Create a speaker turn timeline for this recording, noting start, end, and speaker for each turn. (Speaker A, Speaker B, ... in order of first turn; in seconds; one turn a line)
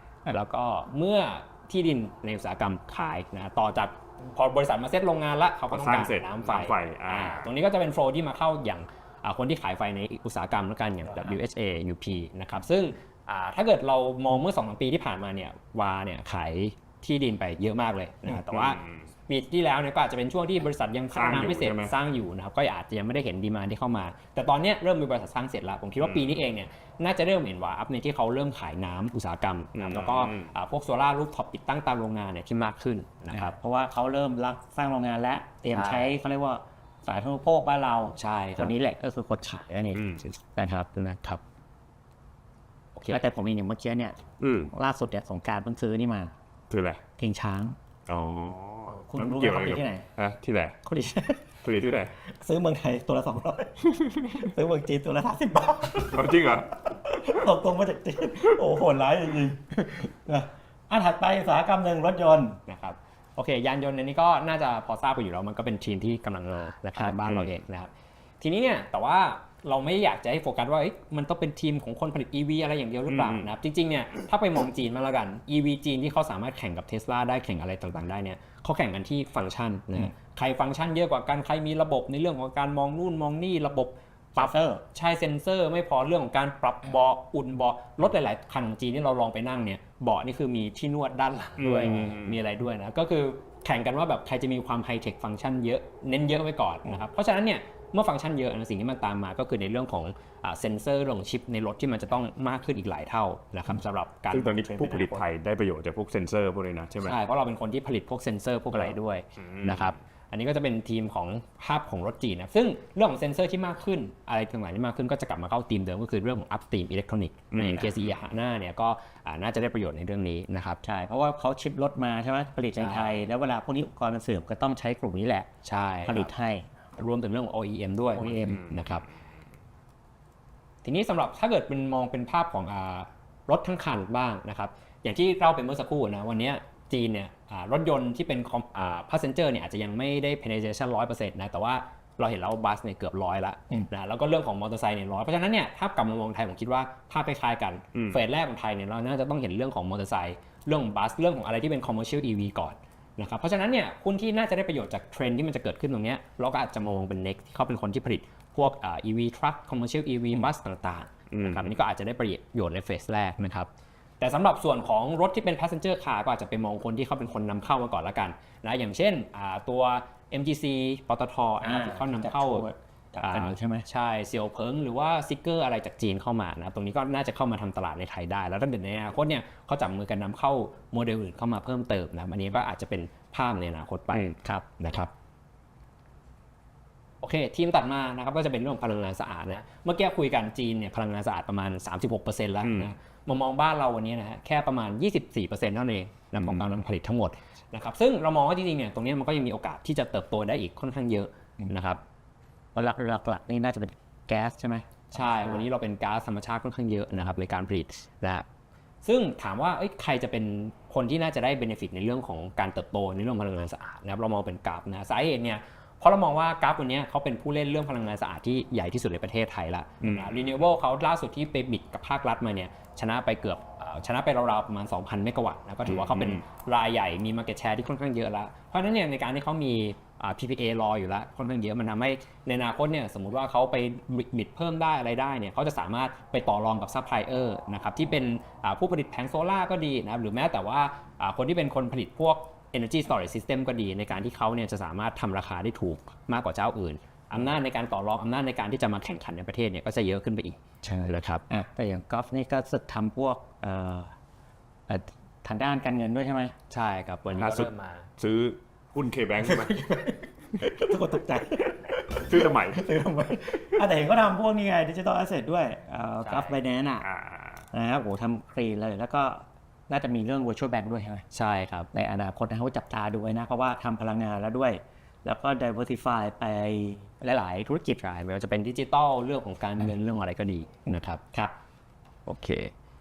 Speaker A: 0.3-33.6
Speaker B: 5.7-7.5
Speaker B: 18.4-19.1
Speaker B: 21.1-21.9
Speaker B: 29.8-30.5
Speaker C: 33.3-40.0
Speaker A: 35.7-36.1
Speaker A: 38.2-38.8
Speaker A: 39.7-40.2
Speaker B: 40.0-40.2
Speaker C: 40.5-41.0
Speaker A: 41.0-41.4
Speaker A: 43.0-43.2
Speaker C: 43.1-44.2
Speaker B: 44.4-44.7
Speaker C: 44.7-46.3
Speaker B: 46.7-47.0
Speaker C: 47.2-47.8
Speaker B: 48.1-50.8
Speaker C: 48.9-50.1
Speaker C: 50.8-51.5
Speaker B: 51.6-52.1
Speaker C: 52.3-56.3
Speaker B: 54.0-54.4
Speaker B: 56.0-56.8
Speaker C: 56.9-62.6
Speaker A: 62.7-105.2
Speaker B: 73.1-73.5
Speaker C: 84.4-84.8
Speaker B: 91.6-92.4
Speaker B: 104.3-107.2
Speaker A: 107.0-120.8
Speaker B: 108.7-110.0
Speaker B: 117.5-118.1
Speaker C: 120.8-125.5
Speaker A: 122.8-123.2
Speaker A: 125.6-126.3
Speaker C: 126.1-126.7
Speaker A: 127.0-129.1
Speaker C: 128.2-128.6
Speaker B: 128.5-129.1
Speaker A: 130.8-163.7
Speaker B: 147.9-148.2
Speaker B: 161.3-161.7
Speaker A: 164.2-172.7
Speaker C: 171.6-173.8
Speaker A: 173.2-185.1
Speaker C: 184.2-184.7
Speaker A: 187.2-202.0
Speaker B: 192.6-192.9
Speaker C: 202.8-205.6
Speaker A: 205.1-208.5
Speaker A: 209.0-251.4
Speaker B: 220.0-220.3
Speaker B: 225.9-226.4
Speaker C: 250.8-254.1
Speaker C: 254.9-256.5
Speaker A: 256.7-258.1
Speaker B: 257.4-259.9
Speaker C: 259.6-267.1
Speaker B: 261.9-262.9
Speaker A: 266.2-266.6
Speaker B: 267.0-267.7
Speaker C: 267.7-271.2
Speaker A: 271.3-271.9
Speaker C: 271.9-278.0
Speaker A: 278.0-281.2
Speaker A: 282.3-282.7